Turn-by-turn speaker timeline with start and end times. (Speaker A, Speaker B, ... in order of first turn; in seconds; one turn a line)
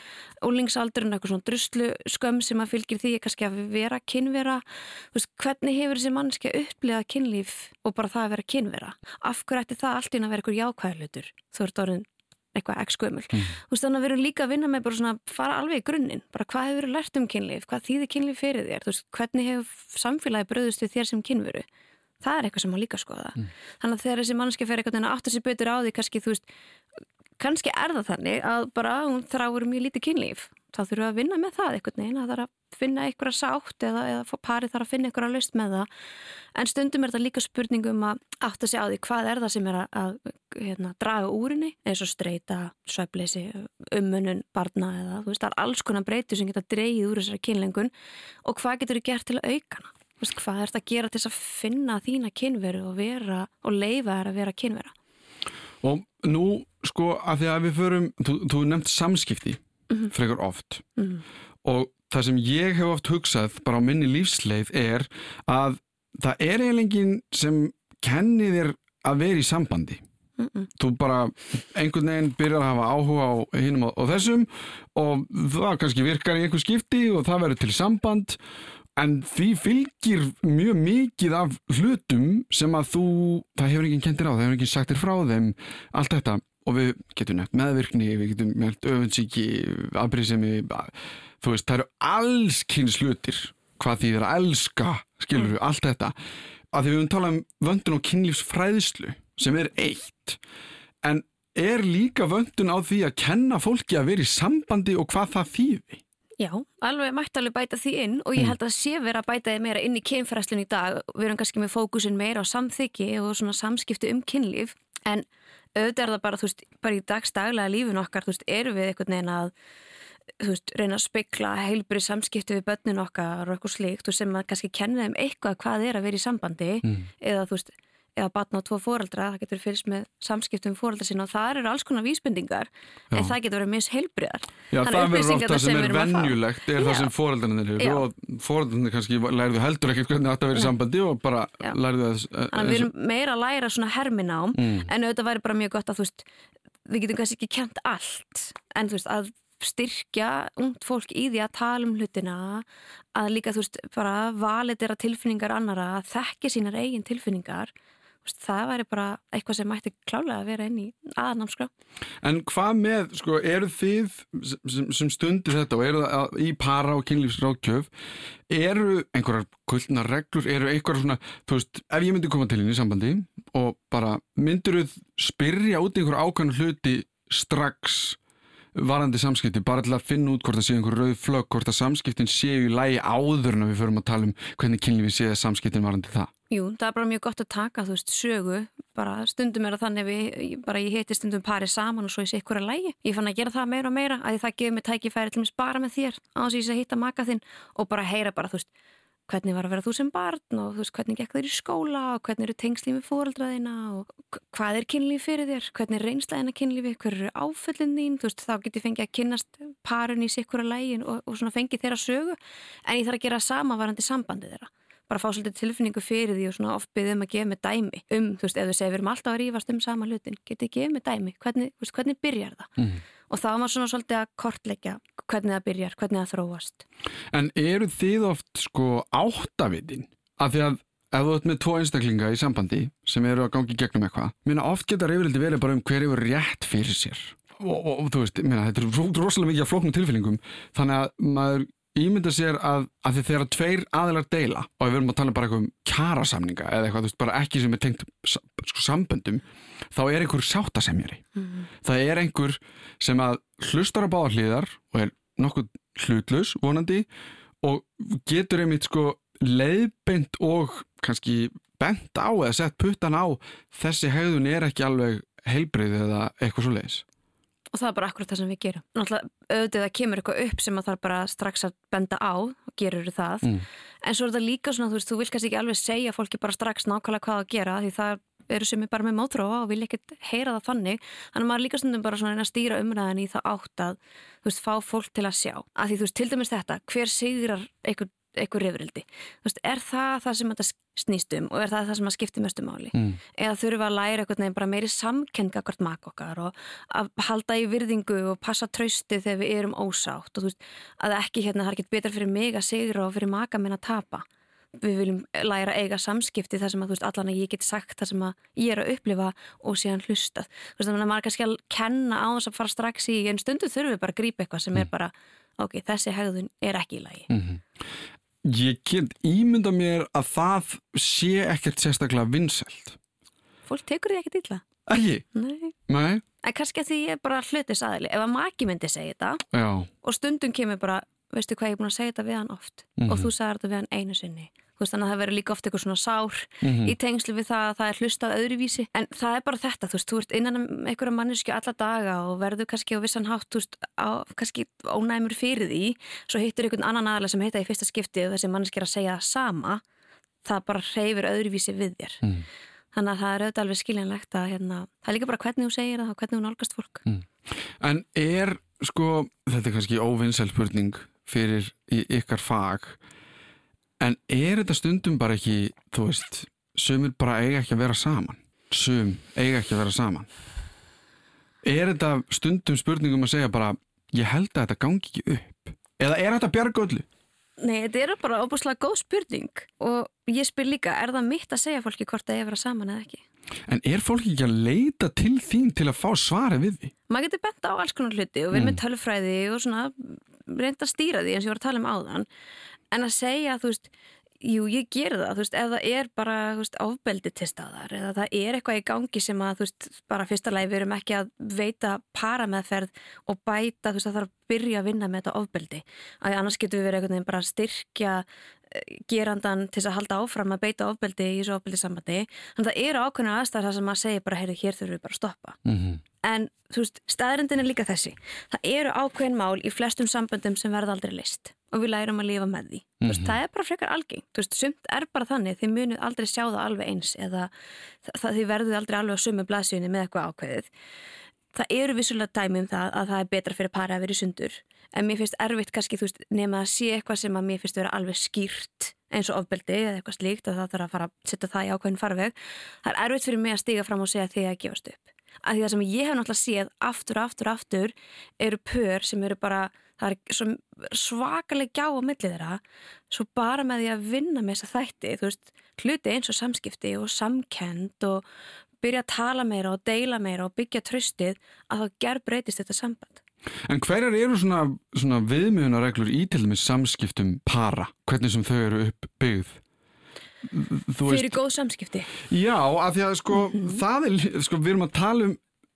Speaker A: 0.4-21.6
Speaker A: 22.2-26.4
Speaker A: 27.4-35.9
Speaker A: 36.5-47.9
Speaker A: 48.4-54.9
Speaker B: 55.8-60.9
Speaker B: 61.6-70.0
Speaker A: 70.4-70.7
Speaker B: 70.8-78.4
Speaker B: 79.0-96.1
Speaker B: 96.7-100.4
Speaker B: 101.0-106.0
Speaker A: 106.4-119.5
Speaker A: 120.4-137.1
Speaker B: 134.7-142.9
Speaker A: 137.8-138.0
Speaker A: 142.5-146.2
Speaker B: 144.5-144.9
Speaker A: 146.9-157.7
Speaker A: 158.2-161.7
Speaker B: 162.2-167.9
Speaker B: 168.5-178.2
Speaker B: 178.7-186.3
Speaker A: 186.5-198.7
Speaker A: 199.3-222.7
Speaker A: 223.3-226.8
Speaker B: 227.3-251.2
Speaker B: 251.8-257.1
Speaker B: 257.6-267.0
Speaker A: 267.7-304.2
Speaker B: 292.9-293.2
Speaker A: 304.8-317.3
Speaker B: 317.3-317.6
Speaker B: 318.4-323.0
Speaker A: 323.6-324.6
Speaker B: 324.9-325.2
Speaker A: 325.3-325.7
Speaker B: 325.9-326.2
Speaker A: 326.4-329.4
Speaker B: 329.5-329.9
Speaker A: 330.0-349.8
Speaker B: 333.0-333.3
Speaker B: 336.6-336.9
Speaker A: 350.4-352.2
Speaker A: 352.9-357.1
Speaker B: 357.8-363.0
Speaker B: 364.0-370.3
Speaker B: 371.6-377.1
Speaker A: 377.6-383.2
Speaker B: 383.7-386.9
Speaker A: 387.1-392.3
Speaker B: 388.5-388.8
Speaker A: 392.9-393.9
Speaker A: 394.4-415.6
Speaker B: 415.6-416.0
Speaker A: 416.2-427.5
Speaker B: 423.0-423.4
Speaker A: 428.0-430.7
Speaker A: 431.5-458.2
Speaker A: 458.8-463.2
Speaker B: 463.7-469.6
Speaker B: 470.5-471.3
Speaker A: 471.0-472.1
Speaker B: 472.2-475.4
Speaker A: 473.5-473.8